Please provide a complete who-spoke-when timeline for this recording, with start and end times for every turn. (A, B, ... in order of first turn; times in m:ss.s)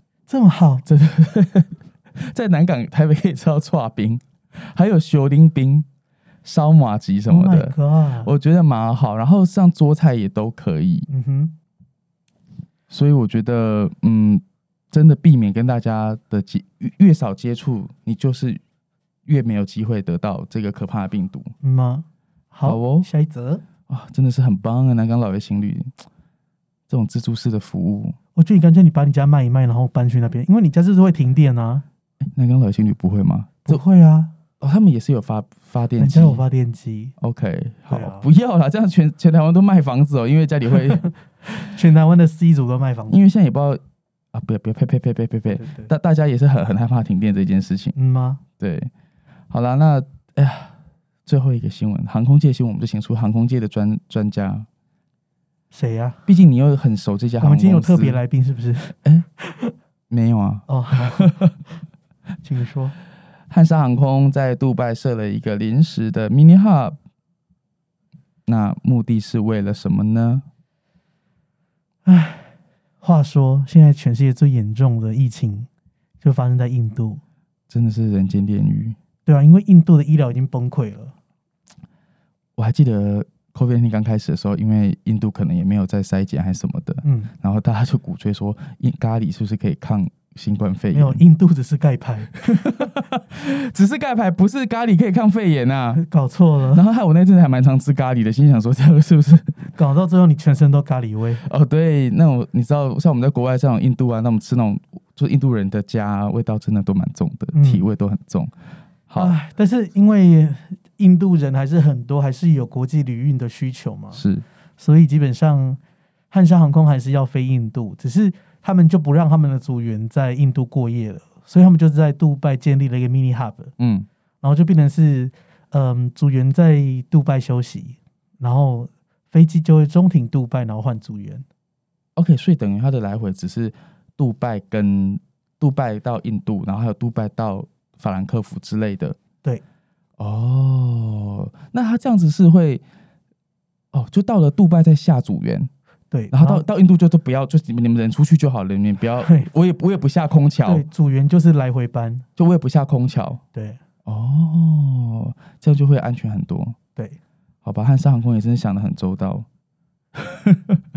0:00.3-0:00.8 A
0:00.8-0:05.8 B
0:06.4-0:11.1 B
0:07.3-0:08.3 A
0:11.1-0:11.5 A
0:12.9-0:18.6 B
0:19.2-0:21.5 B
0:21.6-0:23.6 A
0:22.6-0:23.1 B
0:23.9-0:25.9 B
0:26.9-0:28.2 B
0:28.4-0:31.8 A
0:32.2-0:33.8 B
0:33.6-0:34.3 A
0:34.6-0:36.4 B
0:36.0-0:37.1 A
0:37.2-0:41.0 B
0:37.9-0:38.2 A
0:40.9-0:43.2 A
0:43.1-0:43.8 B
0:44.3-0:47.9 B
0:45.5-0:45.9 A
0:47.9-0:48.4 A
0:48.6-0:48.9 B
0:49.5-0:50.7 B
0:51.2-0:54.7 B
0:55.7-0:56.2 A
0:56.3-0:58.2 B
0:57.4-0:59.7 A
1:00.1-1:01.4 B
1:00.7-1:01.5 A
1:02.4-1:02.9 A
1:03.5-1:07.0 B
1:08.4-1:10.4 B
1:12.0-1:15.7 A
1:16.2-1:17.2 A
1:17.7-1:19.0 B
1:19.2-1:21.1 A
1:22.6-1:31.2 B
1:27.0-1:27.3 A
1:30.9-1:32.9 A
1:32.5-1:36.0 B
1:35.9-1:36.8 A
1:36.7-1:39.6 B
1:39.7-1:41.4 A
1:41.4-1:48.5 B
1:47.5-1:47.9 A
1:49.1-1:49.3 B
1:49.2-1:54.2 A
1:54.1-1:54.4 B
1:54.8-1:55.8 A
1:56.3-2:03.7 A
2:03.8-2:04.1 B
2:04.4-2:11.4 A
2:12.2-2:19.2 B
2:20.2-2:22.8 B
2:23.9-2:25.7 B
2:26.1-2:26.6 A
2:26.3-2:30.8 B
2:29.2-2:29.5 A
2:30.6-2:32.2 A
2:32.4-2:33.4 B
2:33.5-2:33.8 A
2:34.0-2:36.8 B
2:37.6-2:39.4 B
2:40.1-2:40.8 B